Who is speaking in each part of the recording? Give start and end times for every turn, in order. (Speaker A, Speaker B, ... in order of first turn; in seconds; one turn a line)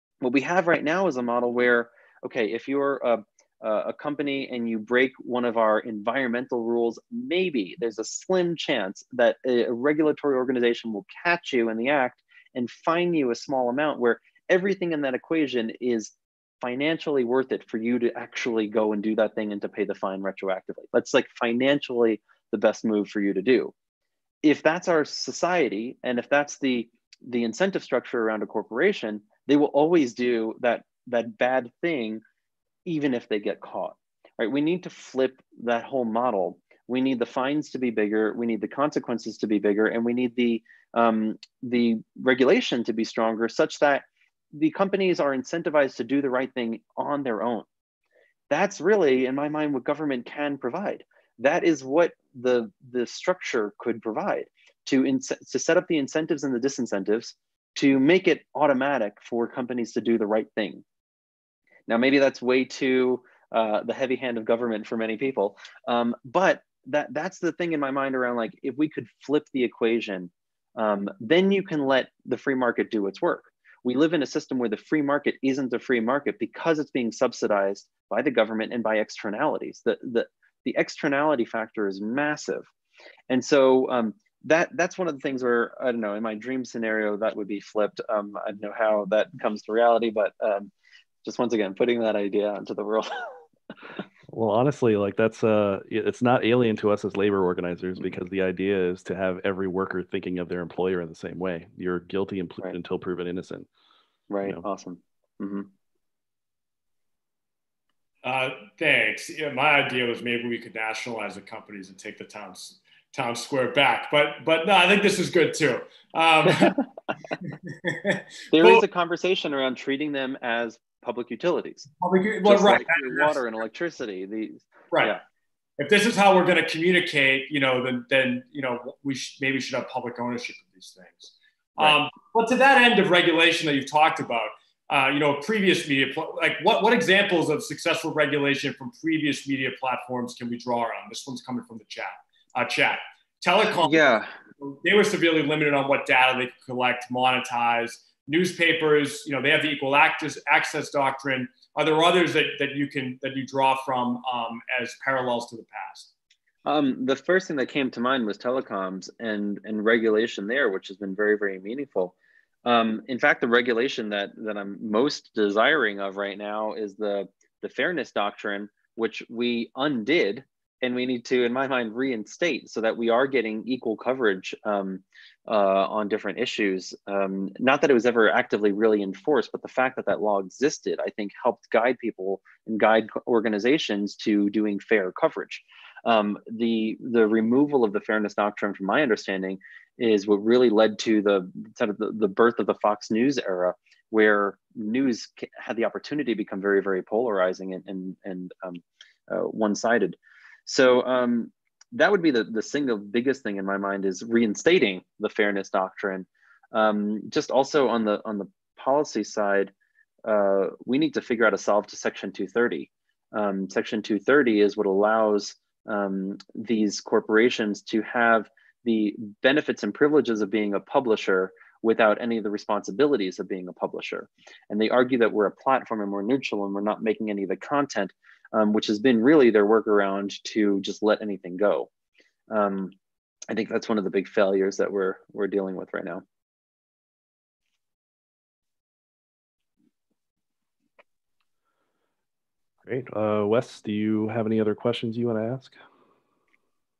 Speaker A: 0.2-23.7
Speaker A: 24.4-32.2
Speaker A: 32.8-47.6
Speaker A: 48.5-60.8
Speaker A: 61.9-82.7
Speaker A: 83.3-90.7
Speaker A: 91.2-93.3
Speaker B: 94.3-103.7
Speaker A: 104.3-105.7
Speaker C: 108.2-116.8
Speaker C: 117.4-118.8
Speaker A: 118.5-121.9
Speaker C: 122.0-123.4
Speaker A: 122.4-125.2
Speaker C: 125.8-156.1
Speaker A: 143.8-144.3
Speaker A: 156.6-209.7
Speaker A: 210.2-231.9
Speaker A: 232.5-232.9
Speaker A: 233.5-236.2
Speaker B: 242.8-245.8